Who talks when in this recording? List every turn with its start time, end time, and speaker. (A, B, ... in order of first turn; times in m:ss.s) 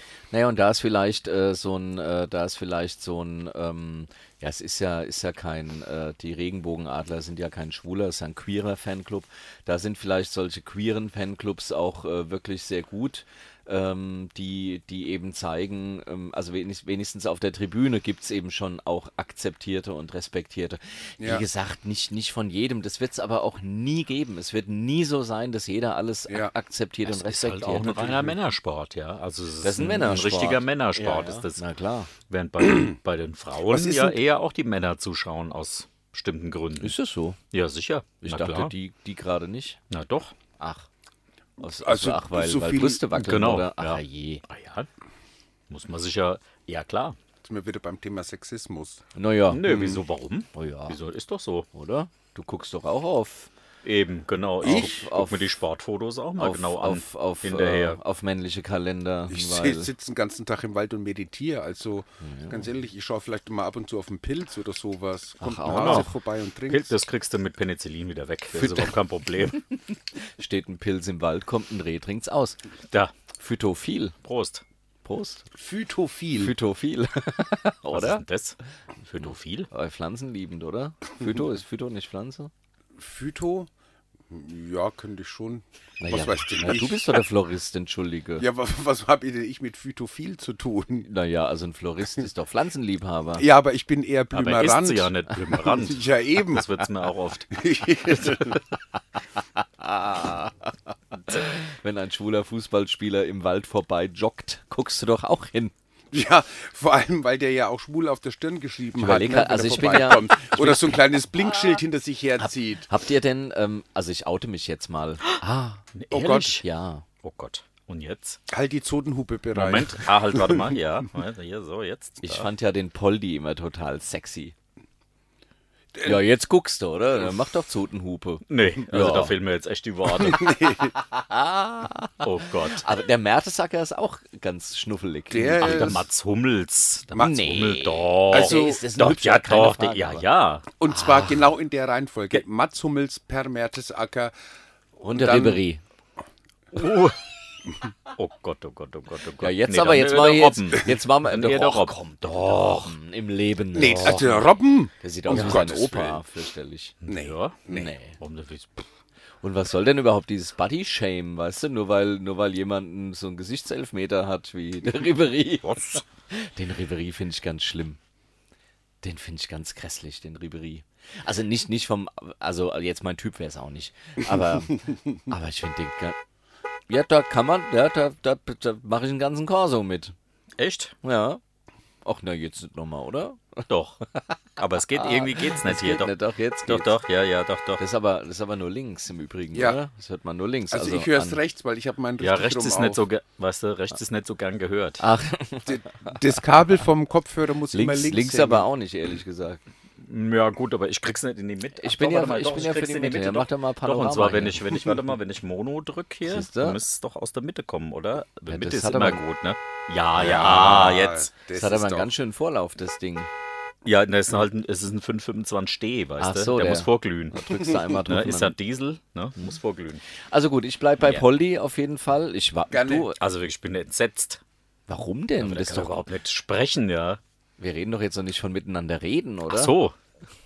0:00.3-0:28.3 A
0:27.0-0:31.6 B
0:29.6-0:32.1 A
0:32.3-0:37.0 B
0:32.6-0:32.9 C
0:33.7-0:34.2 C
0:36.8-0:37.4 A
0:37.5-0:38.7 B
0:38.2-0:39.8 A
0:39.9-0:40.4 B
0:40.6-0:40.9 A
0:41.6-0:44.4 A
0:41.8-0:43.0 C
0:43.1-0:44.9 B
0:45.7-0:47.2 B
0:47.4-0:49.0 C
0:49.2-0:49.9 A
0:49.5-0:51.7 B
0:49.7-0:50.0 C
0:50.5-0:51.0 A
0:51.7-0:53.5 A
0:53.8-0:58.0 B
0:54.6-0:55.0 C
0:54.6-0:55.4 A
0:56.4-0:59.9 A
0:59.3-1:07.0 C
1:02.2-1:02.6 A
1:05.4-1:06.1 A
1:05.7-1:06.1 B
1:06.7-1:09.6 B
1:08.5-1:08.9 A
1:10.3-1:12.6 A
1:13.4-1:14.2 A
1:14.2-1:14.6 B
1:15.0-1:15.5 A
1:15.6-1:16.6 C
1:16.4-1:18.2 A
1:17.9-1:19.7 B
1:19.2-1:22.5 A
1:23.0-1:23.7 C
1:24.3-1:27.2 C
1:26.0-1:28.5 A
1:28.4-1:31.1 C
1:31.0-1:33.5 A
1:33.4-1:36.7 C
1:34.3-1:37.7 B
1:37.5-1:38.6 C
1:39.8-1:40.5 A
1:41.4-1:45.7 A
1:46.1-1:52.9 C
1:49.0-1:51.0 A
1:52.4-1:55.8 A
1:56.0-1:56.6 B
1:56.1-1:56.6 C
1:56.5-1:57.0 A
1:57.2-1:58.4 B
1:58.5-2:00.7 C
1:59.5-2:02.5 B
2:02.2-2:04.5 A
2:06.0-2:09.3 A
2:08.5-2:10.9 B
2:10.2-2:10.9 C
2:10.9-2:16.0 A
2:12.2-2:12.9 B
2:15.3-2:16.0 C
2:15.6-2:20.7 B
2:17.1-2:17.4 C
2:17.2-2:20.3 A
2:18.3-2:18.8 C
2:20.8-2:24.3 C
2:20.9-2:21.5 A
2:25.0-2:25.8 A
2:25.0-2:25.6 C
2:26.7-2:27.2 B
2:28.1-2:33.0 B
2:29.4-2:34.4 A
2:33.7-2:36.2 C
2:33.8-2:34.4 B
2:35.0-2:37.0 A
2:35.3-2:35.6 B
2:37.0-2:38.9 B
2:37.1-2:37.9 C
2:37.7-2:38.2 A
2:39.4-2:48.0 A
2:45.6-2:46.0 B
2:49.0-2:56.2 A
2:56.9-3:00.2 A
3:00.6-3:01.0 B
3:01.0-3:01.4 A
3:02.0-3:03.7 A
3:03.7-3:04.0 B
3:04.6-3:07.8 B
3:05.0-3:07.0 A
3:07.8-3:11.4 A
3:09.5-3:09.8 C
3:10.7-3:13.0 C
3:12.2-3:15.0 B
3:15.0-3:16.1 A
3:15.7-3:18.7 C
3:17.7-3:19.6 A
3:20.0-3:31.3 B
3:21.8-3:24.8 A
3:26.2-3:26.8 A
3:28.5-3:29.2 A
3:30.2-3:32.1 C
3:30.3-3:30.8 A
3:31.5-3:33.3 A
3:33.8-3:40.0 B
3:36.2-3:38.6 A
3:40.2-3:43.2 A
3:42.7-3:43.1 C
3:43.2-3:44.4 B
3:44.9-3:46.0 A
3:45.4-3:47.2 B
3:47.6-3:49.7 A
3:49.5-3:50.0 B